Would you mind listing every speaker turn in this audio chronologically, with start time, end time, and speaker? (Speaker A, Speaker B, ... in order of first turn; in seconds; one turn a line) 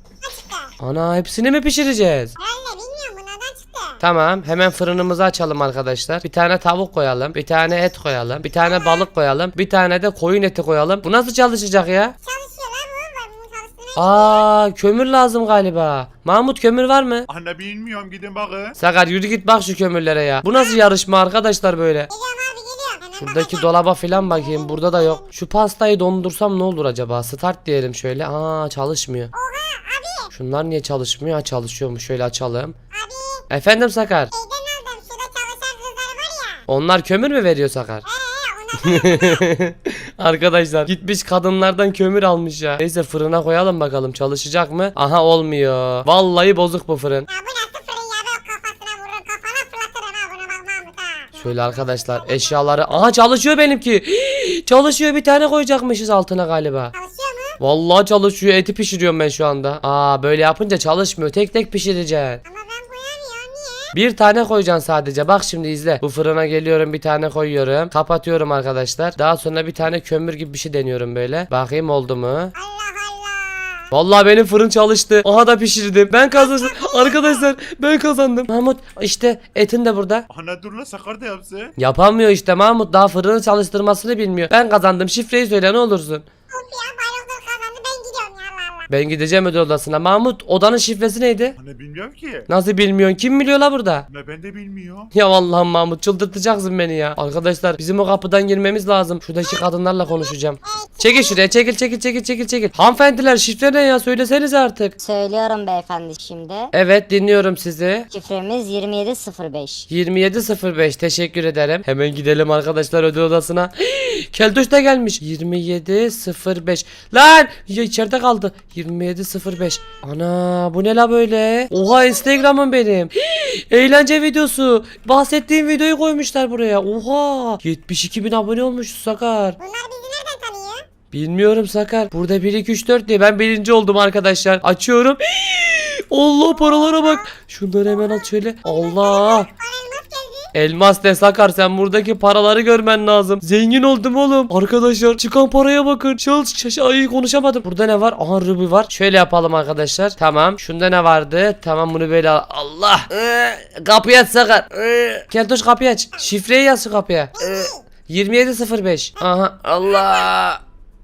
Speaker A: 0.2-0.7
Speaker B: 0.8-2.3
Speaker A: 2.4-4.0
Speaker B: 4.0-12.1
Speaker A: 12.2-14.4
Speaker B: 13.9-17.3
Speaker C: 17.3-18.8
Speaker B: 18.8-22.1
Speaker A: 22.1-25.2
Speaker B: 23.2-29.3
Speaker A: 29.4-30.3
Speaker B: 30.3-32.8
Speaker A: 32.9-33.5
Speaker B: 33.5-34.3
Speaker A: 34.3-36.6
Speaker B: 36.7-38.0
Speaker A: 38.1-39.5
Speaker B: 38.8-47.3
Speaker A: 47.3-52.5
Speaker B: 51.4-56.9
Speaker A: 57.0-57.6
Speaker B: 57.6-62.4
Speaker A: 62.4-63.9
Speaker B: 63.9-72.5
Speaker A: 72.5-73.8
Speaker B: 73.9-80.2
Speaker A: 76.7-77.1
Speaker C: 80.3-81.7
Speaker B: 81.8-86.2
Speaker A: 86.5-88.9
Speaker B: 88.9-91.5
Speaker C: 91.6-92.5
Speaker B: 92.5-94.0
Speaker C: 94.1-95.1
Speaker B: 95.1-104.9
Speaker A: 100.7-101.3
Speaker D: 105.0-106.7
Speaker B: 106.7-108.1
Speaker D: 108.1-109.9
Speaker B: 109.9-129.6
Speaker A: 129.6-130.9
Speaker B: 131.1-139.5
Speaker A: 139.2-140.5
Speaker B: 140.5-160.6
Speaker A: 157.4-157.8